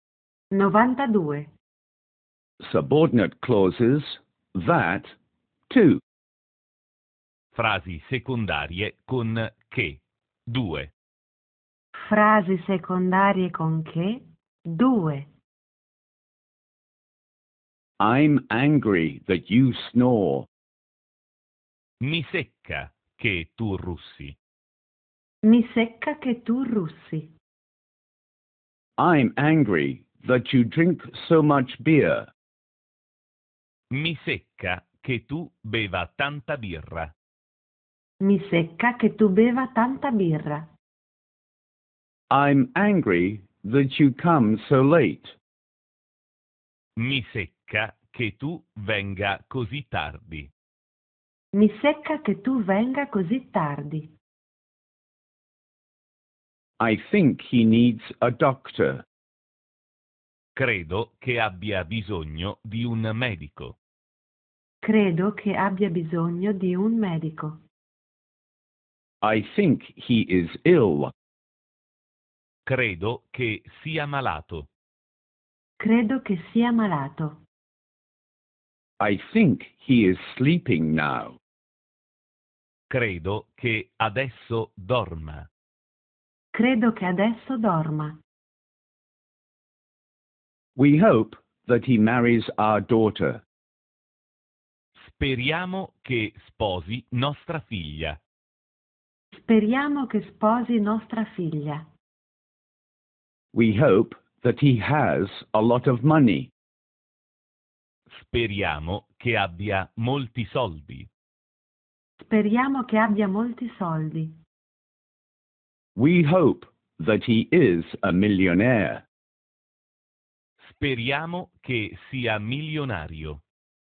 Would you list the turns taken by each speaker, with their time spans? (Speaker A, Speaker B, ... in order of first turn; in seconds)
Speaker A: 0.5-1.5, 12.1-15.3, 25.4-27.3, 38.2-40.7, 51.5-54.1, 64.8-67.6, 75.8-77.4, 86.5-88.2, 99.3-101.8, 112.2-114.4
Speaker B: 2.6-5.1, 5.7-6.0, 18.0-20.5, 29.0-32.3, 42.3-45.4, 56.8-59.0, 69.2-71.1, 79.0-81.4, 90.8-93.4, 103.5-106.5, 116.0-119.0
Speaker C: 7.5-10.9, 22.0-24.4, 33.9-37.1, 47.0-50.5, 60.6-63.8, 72.7-74.7, 82.9-85.5, 95.0-98.2, 108.1-111.1, 120.6-123.4